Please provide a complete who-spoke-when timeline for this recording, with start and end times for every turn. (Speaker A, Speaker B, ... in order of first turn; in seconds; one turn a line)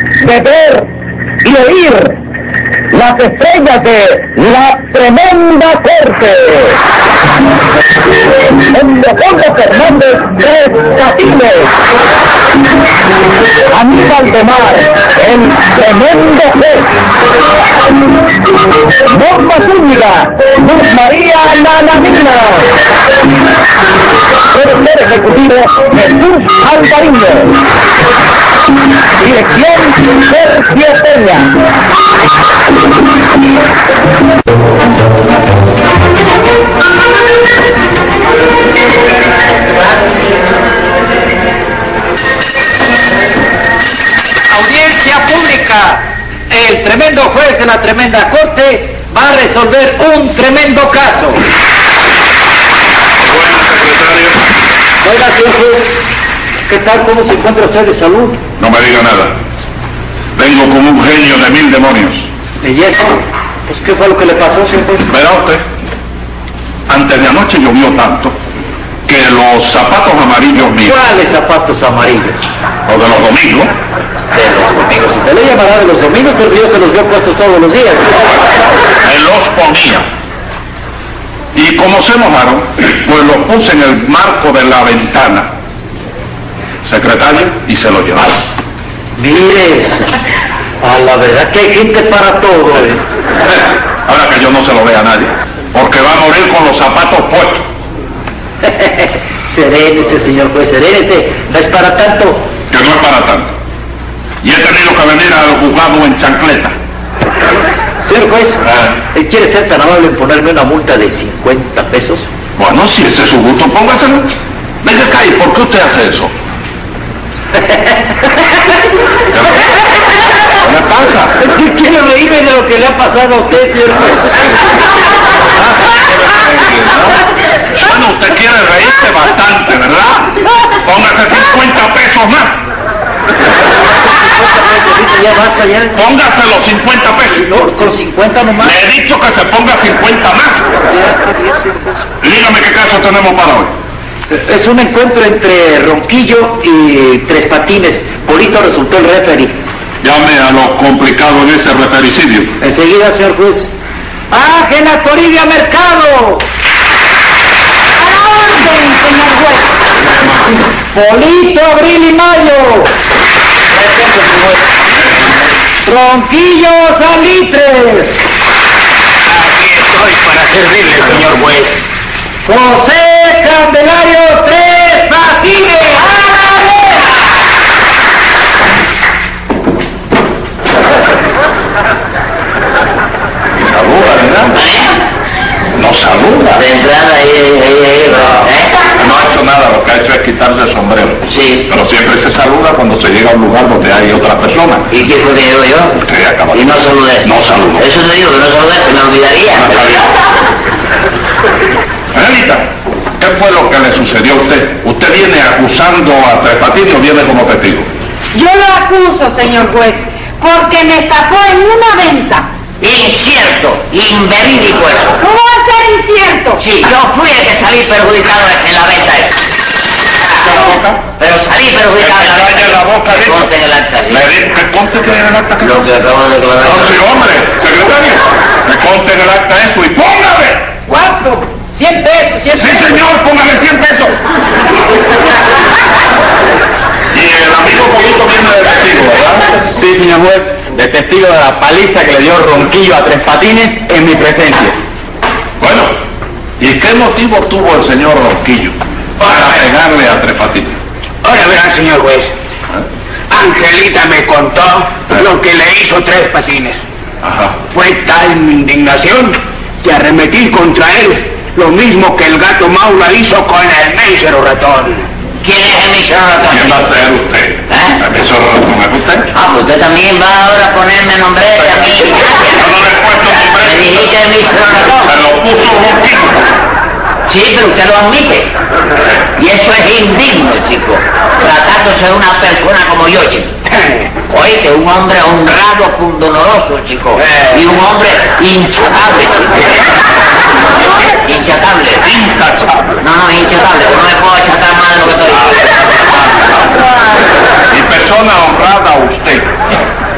Speaker A: 0.2-0.9
Speaker A: 1.4-2.1
Speaker A: 2.9-6.8
Speaker A: 8.6-11.7
Speaker A: 13.7-16.9
Speaker A: 19.0-22.7
Speaker A: 24.5-27.6
Speaker A: 29.2-31.5
Speaker B: 44.5-51.4
Speaker C: 53.3-54.4
Speaker B: 55.0-56.0
Speaker B: 56.7-58.4
Speaker C: 58.6-59.3
Speaker C: 60.4-62.3
Speaker B: 62.6-63.1
Speaker B: 63.7-65.1
Speaker C: 65.1-65.6
Speaker C: 66.9-68.3
Speaker C: 69.1-71.0
Speaker B: 70.8-72.4
Speaker C: 72.9-73.7
Speaker B: 74.3-78.2
Speaker C: 79.0-80.1
Speaker C: 81.5-85.5
Speaker C: 86.8-88.3
Speaker B: 89.2-90.1
Speaker B: 90.8-93.0
Speaker C: 93.5-97.7
Speaker B: 98.6-102.4
Speaker C: 102.7-103.5
Speaker C: 104.4-106.7
Speaker B: 108.0-108.6
Speaker B: 109.1-112.3
Speaker C: 112.6-114.3
Speaker C: 114.8-116.3
Speaker C: 119.3-119.6
Speaker C: 120.6-121.3
Speaker B: 121.4-124.4
Speaker C: 125.5-127.2
Speaker C: 127.7-132.6
Speaker B: 134.3-136.0
Speaker C: 135.9-137.5
Speaker B: 137.5-138.7
Speaker C: 138.6-140.7
Speaker B: 140.9-141.9
Speaker C: 142.2-143.7
Speaker B: 144.3-149.5
Speaker C: 150.0-152.5
Speaker B: 152.6-153.7
Speaker B: 154.3-156.4
Speaker D: 158.0-159.7
Speaker B: 160.9-162.9
Speaker B: 163.7-164.6
Speaker B: 165.8-168.1
Speaker E: 169.5-171.7
Speaker B: 172.4-176.2
Speaker C: 183.6-184.6
Speaker F: 184.5-185.0
Speaker C: 185.8-186.6
Speaker F: 186.5-188.7
Speaker C: 189.0-194.8
Speaker F: 191.2-191.7
Speaker F: 194.9-196.0
Speaker C: 196.0-197.8
Speaker F: 196.5-200.0
Speaker C: 199.6-200.1
Speaker C: 202.1-202.7
Speaker C: 203.2-207.9
Speaker D: 208.3-212.4
Speaker F: 212.8-215.2
Speaker D: 215.2-216.6
Speaker F: 216.6-219.5
Speaker C: 220.3-221.0
Speaker F: 221.2-224.3
Speaker C: 222.0-223.5
Speaker C: 224.1-225.9
Speaker F: 225.6-227.0
Speaker C: 226.6-230.7
Speaker B: 230.9-232.9
Speaker C: 232.6-234.2
Speaker C: 237.1-239.5
Speaker G: 239.7-244.8
Speaker C: 245.6-245.9
Speaker C: 246.6-250.7
Speaker E: 251.2-252.3
Speaker E: 253.3-256.8
Speaker C: 257.2-257.6
Speaker E: 257.7-265.0
Speaker F: 265.4-266.8
Speaker C: 266.5-269.3
Speaker F: 267.7-268.0
Speaker F: 269.3-272.7
Speaker C: 272.6-274.1
Speaker F: 273.6-275.1
Speaker C: 275.0-276.4
Speaker F: 277.3-278.5
Speaker F: 279.4-283.5
Speaker F: 284.3-289.9
Speaker F: 291.2-292.1
Speaker C: 292.0-293.0
Speaker F: 293.0-295.7
Speaker C: 295.4-296.7
Speaker C: 297.7-299.5